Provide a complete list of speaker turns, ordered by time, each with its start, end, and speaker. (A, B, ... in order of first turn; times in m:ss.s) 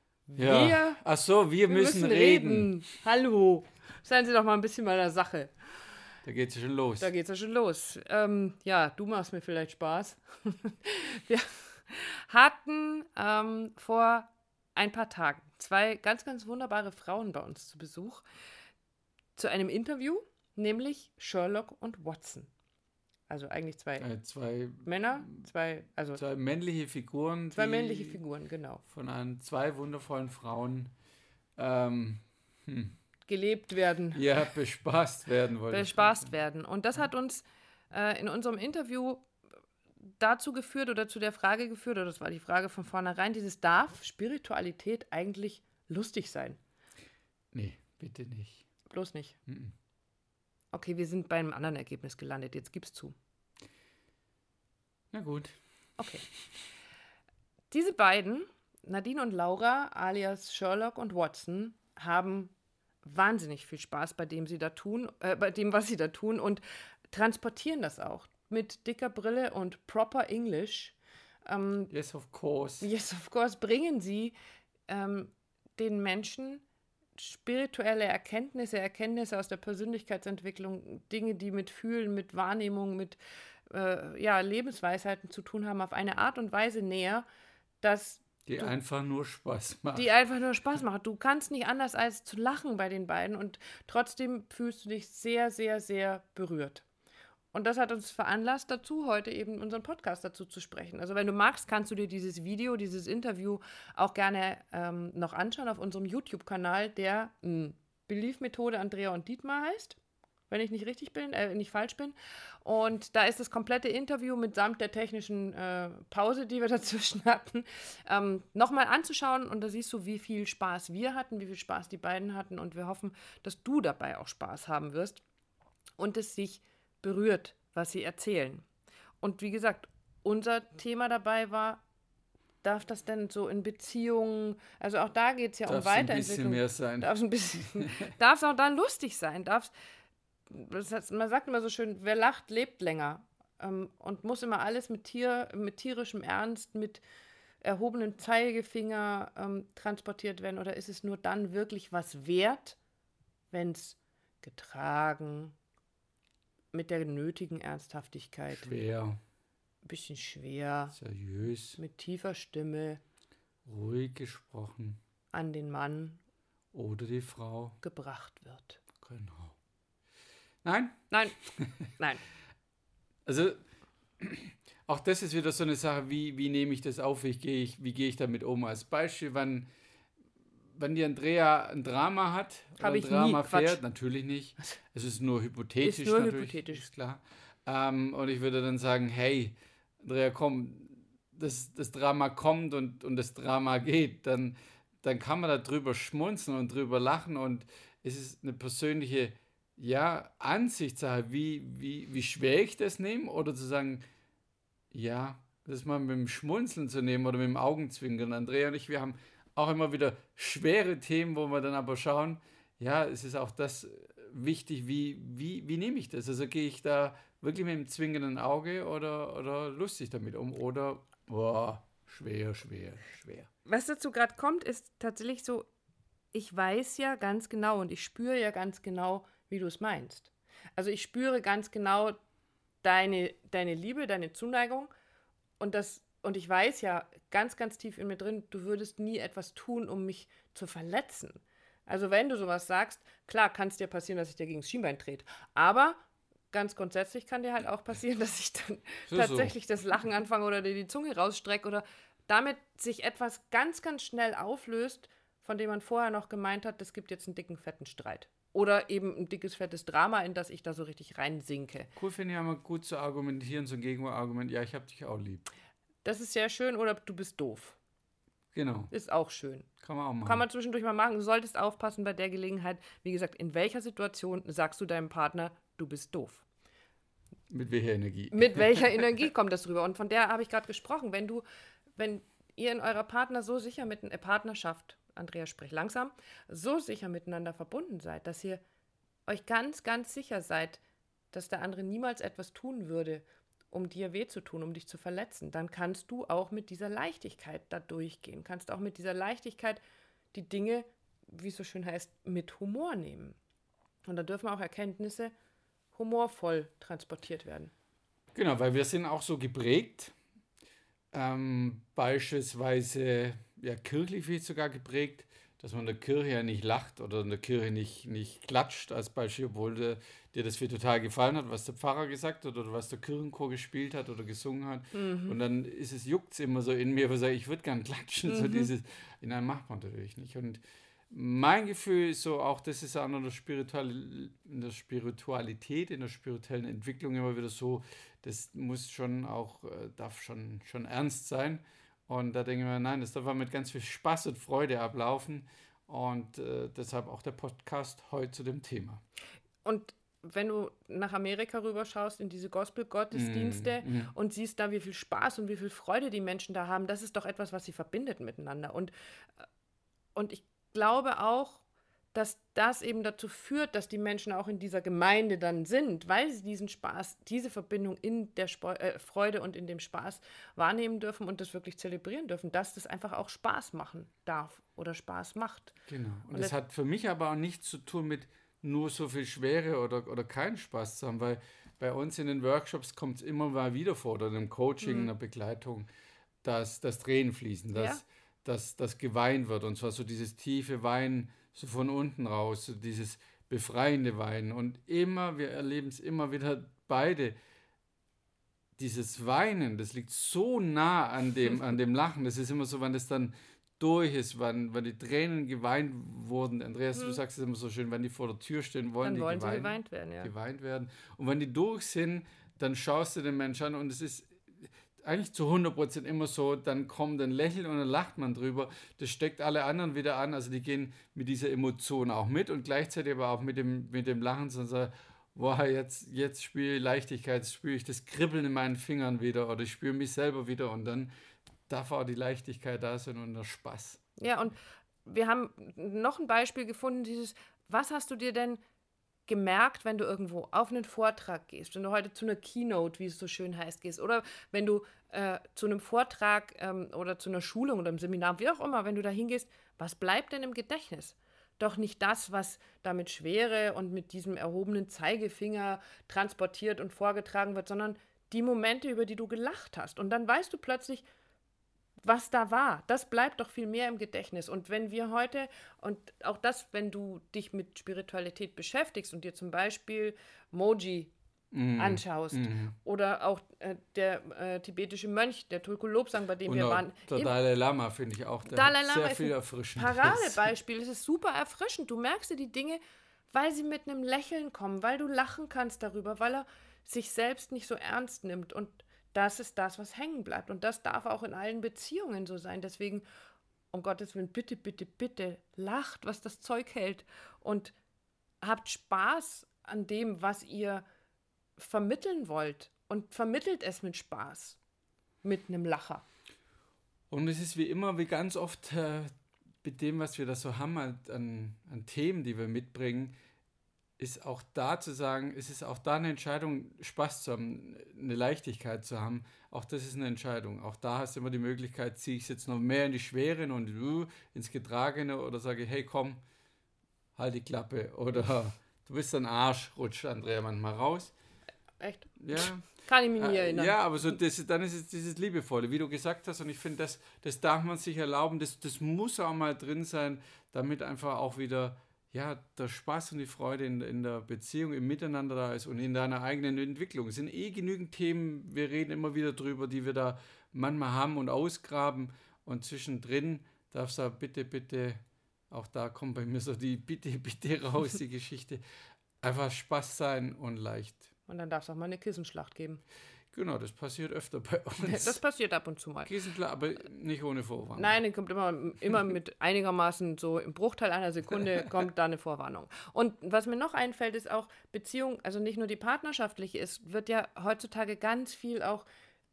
0:00.3-0:01.0 A
0:00.3-0:02.7 B
0:01.7-0:05.5 A
0:06.2-0:07.1 B
0:07.0-0:18.2 A
0:19.4-0:22.5 A
0:23.3-0:24.1 A
0:24.0-0:25.3 B
0:24.8-0:26.2 A
0:26.2-0:28.2 B
0:27.5-0:28.8 A
0:28.9-0:30.9 B
0:31.6-0:32.9 B
0:33.2-0:34.2 A
0:34.1-0:36.3 B
0:35.7-0:39.3 A
0:40.2-0:46.6 A
0:47.5-0:48.6 B
0:48.9-0:49.4 A
0:49.5-0:49.7 B
0:50.7-0:53.1 A
0:55.1-0:55.5 B
0:56.0-0:56.2 A
0:57.7-1:02.5 A
1:03.0-1:11.9 A
1:11.9-1:12.9 B
1:12.8-1:14.3 A
1:14.9-1:16.6 A
1:17.2-1:23.2 A
1:23.7-1:27.2 A
1:27.8-1:28.7 A
1:28.5-1:30.1 B
1:29.9-1:36.8 A
1:37.5-2:05.2 A
2:06.0-2:08.6 A
2:09.2-2:11.8 A
2:12.6-2:19.7 A
2:15.6-2:18.1 B
2:20.5-2:27.0 A
2:27.6-2:32.8 A
2:33.5-2:35.5 A
2:36.7-2:38.7 A
2:38.5-2:39.2 B
2:39.8-2:41.0 A
2:41.0-2:41.8 B
2:41.8-2:43.0 A
2:43.6-2:45.0 B
2:45.3-2:46.2 A
2:46.7-2:47.8 B
2:47.8-2:48.8 A
2:49.0-2:49.5 B
2:50.6-2:51.9 B
2:51.1-2:51.4 A
2:52.0-2:52.2 A
2:53.2-2:53.6 B
2:54.2-2:59.7 B
3:00.7-3:24.0 B
3:02.8-3:03.8 A
3:05.8-3:06.9 A
3:24.9-3:43.5 B
3:43.6-3:45.7 A
3:46.3-3:52.2 A
3:52.8-3:54.9 A
3:55.6-4:06.0 A
4:06.5-4:21.9 A
4:09.1-4:09.5 B
4:22.0-4:25.5 B
4:26.0-4:27.8 A
4:28.5-4:28.9 B
4:28.9-4:29.7 A
4:29.8-4:30.4 B
4:30.2-4:36.4 A
4:37.5-4:38.8 B
4:38.3-4:41.4 A
4:42.0-4:48.6 A
4:49.3-4:50.8 A
4:51.3-4:59.8 A
5:00.3-5:03.4 A
5:04.0-5:05.3 A
5:05.9-5:07.7 A
5:08.3-5:10.1 B
5:11.1-5:49.0 B
5:24.9-5:25.4 A
5:28.3-5:28.7 A
5:49.6-5:58.9 A
5:53.1-5:54.1 B
6:00.1-6:15.7 A
6:15.9-6:25.9 B
6:24.8-6:25.1 A
6:26.4-6:37.3 B
6:27.7-6:28.0 A
6:38.8-7:11.1 B
6:46.9-6:47.2 A
6:49.0-6:50.3 A
7:11.7-7:14.1 B
7:14.2-7:18.6 A
7:19.3-7:41.0 A
7:42.0-7:51.1 A
7:51.5-7:52.7 B
7:51.8-7:57.3 A
7:56.4-8:00.5 B
7:58.4-8:13.0 A
8:13.7-8:17.7 A
8:18.4-8:20.8 A
8:21.6-8:24.6 A
8:25.2-8:26.0 A
8:27.1-8:29.1 B
8:29.6-8:33.1 B
8:34.0-8:46.2 B
8:47.2-8:51.1 B
8:51.8-8:54.2 A
8:52.2-8:52.6 B
8:53.2-9:18.6 B
9:19.2-9:21.1 B
9:21.3-9:22.8 A
9:23.3-9:25.2 B
9:24.8-9:26.1 A
9:26.0-9:28.0 B
9:27.8-9:38.8 A